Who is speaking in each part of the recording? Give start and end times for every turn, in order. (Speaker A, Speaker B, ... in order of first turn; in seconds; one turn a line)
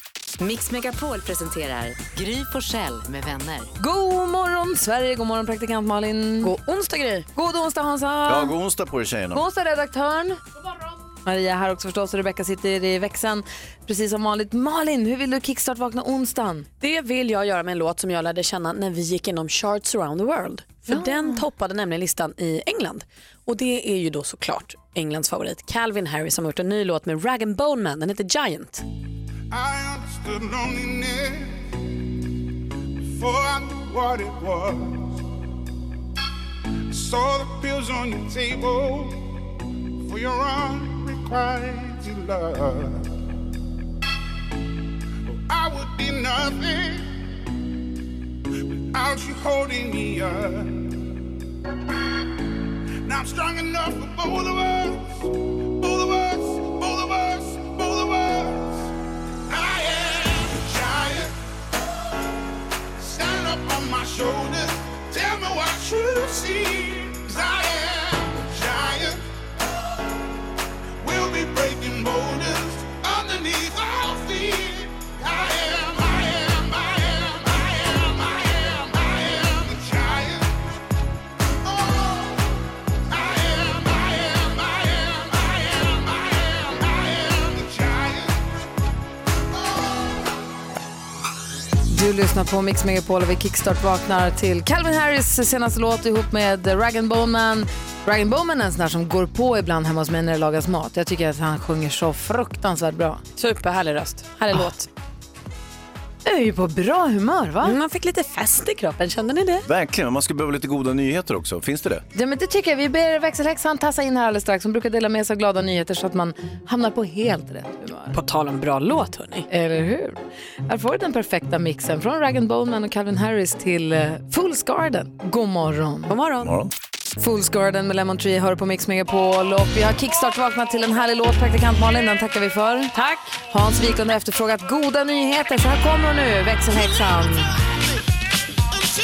Speaker A: 0.4-3.7
Speaker B: 3.8-6.5
Speaker C: 6.4-7.3
Speaker B: 7.3-8.5
Speaker D: 8.3-9.4
Speaker B: 9.3-10.4
Speaker B: 11.2-16.7
Speaker C: 16.8-28.8
Speaker B: 20.9-21.4
Speaker E: 29.5-31.7
Speaker E: 33.1-35.2
Speaker E: 36.9-39.2
Speaker E: 40.0-43.1
Speaker E: 45.3-47.1
Speaker E: 48.9-50.9
Speaker E: 53.0-58.9
Speaker E: 59.5-61.4
Speaker E: 63.0-69.2
Speaker E: 71.0-80.6
Speaker E: 81.6-82.5
Speaker E: 83.1-88.7
Speaker E: 89.5-90.2
Speaker B: 91.9-103.2
Speaker C: 103.4-104.9
Speaker B: 106.2-107.8
Speaker C: 107.6-109.7
Speaker D: 109.7-112.0
Speaker B: 112.1-118.2
Speaker C: 118.1-119.5
Speaker B: 119.5-126.1
Speaker C: 126.1-126.6
Speaker D: 126.4-126.7
Speaker B: 127.2-132.9
Speaker C: 132.9-133.4
Speaker B: 133.5-137.5